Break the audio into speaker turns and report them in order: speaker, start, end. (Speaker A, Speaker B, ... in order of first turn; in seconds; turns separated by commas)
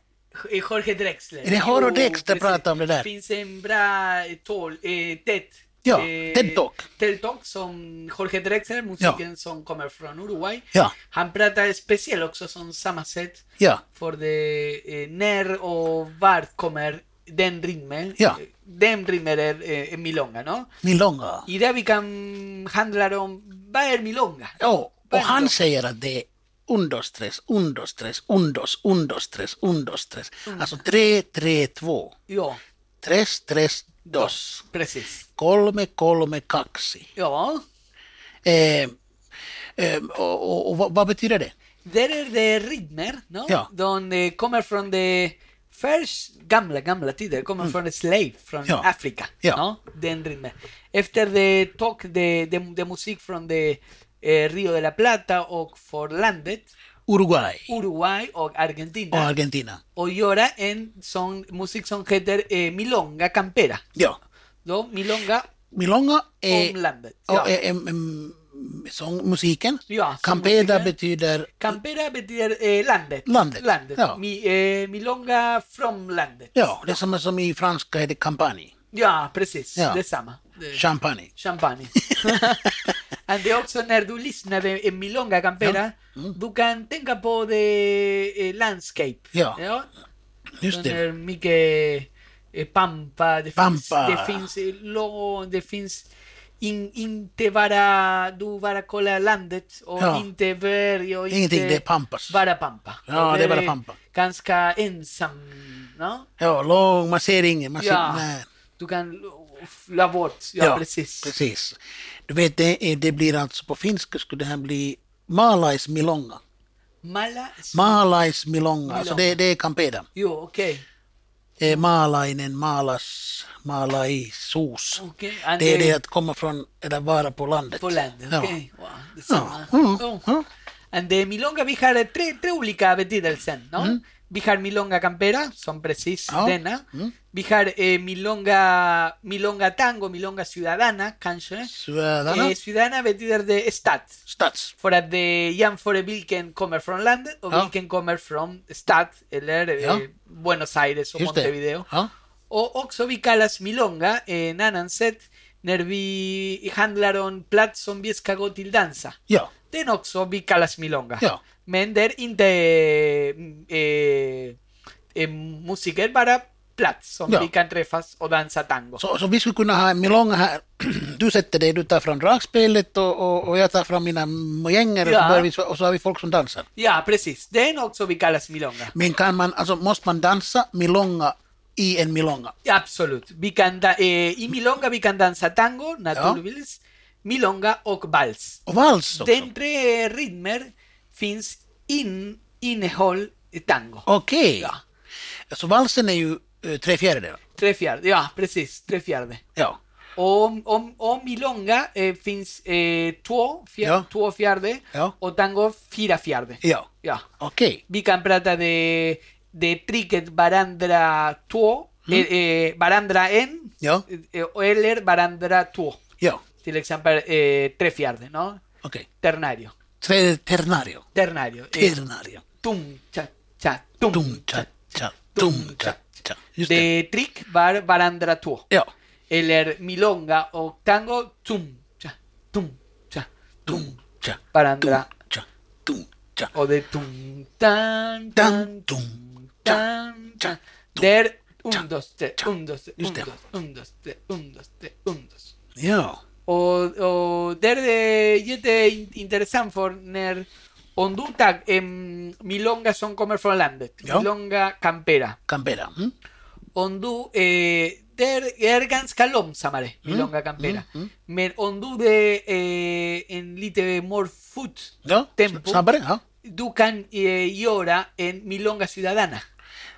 Speaker A: 0.3-20.7, Speaker B: 1.4-3.1, Speaker B: 5.8-6.8, Speaker B: 20.8-21.5, Speaker A: 21.5-25.6, Speaker B: 24.6-32.1, Speaker A: 30.5-30.8, Speaker A: 32.3-32.6, Speaker B: 33.0-34.6, Speaker A: 34.1-35.2, Speaker B: 35.4-37.1, Speaker A: 37.2-37.6, Speaker B: 38.4-38.9, Speaker B: 39.8-41.5, Speaker A: 41.8-56.7, Speaker B: 57.1-57.7, Speaker A: 57.7-59.3, Speaker B: 59.1-59.8, Speaker A: 60.0-63.8, Speaker A: 64.7-65.5, Speaker B: 65.7-66.8, Speaker A: 66.5-67.5, Speaker B: 67.3-71.8, Speaker A: 69.9-70.9, Speaker A: 71.6-76.5, Speaker B: 73.3-74.2, Speaker B: 76.5-78.7, Speaker A: 78.9-80.8, Speaker B: 80.7-81.3, Speaker A: 81.3-89.9, Speaker B: 82.0-82.9, Speaker B: 85.6-86.3, Speaker B: 89.3-89.6, Speaker B: 90.6-91.0, Speaker A: 90.7-96.1, Speaker B: 93.6-94.5, Speaker A: 96.6-106.3, Speaker B: 100.0-100.3, Speaker B: 101.3-102.4, Speaker B: 103.1-104.0, Speaker B: 106.4-108.5, Speaker A: 107.8-111.3, Speaker B: 110.6-116.4, Speaker A: 117.0-118.0, Speaker B: 117.7-120.1, Speaker A: 118.9-119.4, Speaker A: 120.2-120.8, Speaker B: 121.6-125.0, Speaker A: 125.0-126.0, Speaker B: 125.6-128.6, Speaker A: 127.8-130.2, Speaker B: 129.3-130.5, Speaker A: 130.9-141.7, Speaker B: 136.3-137.2, Speaker B: 141.7-142.6, Speaker A: 142.3-144.2, Speaker B: 144.3-144.7, Speaker A: 144.8-151.9, Speaker B: 151.2-152.1, Speaker A: 152.5-159.2, Speaker A: 159.7-164.6, Speaker A: 165.2-169.0, Speaker B: 169.0-176.7, Speaker A: 175.0-175.5, Speaker A: 176.8-178.9, Speaker B: 178.9-182.5, Speaker A: 182.7-194.1, Speaker B: 188.7-189.5, Speaker B: 194.1-194.7, Speaker B: 195.5-197.4, Speaker A: 197.6-199.4, Speaker A: 200.2-207.3, Speaker B: 207.4-207.8, Speaker A: 207.9-216.0, Speaker A: 216.6-218.6, Speaker A: 219.2-219.8, Speaker B: 220.0-221.1, Speaker A: 221.2-222.0, Speaker B: 221.7-222.4, Speaker A: 222.6-224.8, Speaker B: 224.1-226.9, Speaker A: 225.3-226.0, Speaker A: 226.6-228.7, Speaker A: 229.3-234.0, Speaker B: 233.7-236.5, Speaker A: 234.5-235.1, Speaker A: 236.5-245.5, Speaker B: 238.4-239.8, Speaker B: 240.4-241.1, Speaker B: 243.0-243.3, Speaker B: 245.8-246.2, Speaker A: 246.5-255.4, Speaker B: 255.5-256.1, Speaker A: 256.8-265.8, Speaker B: 260.1-261.1, Speaker B: 265.1-266.2, Speaker A: 266.4-269.5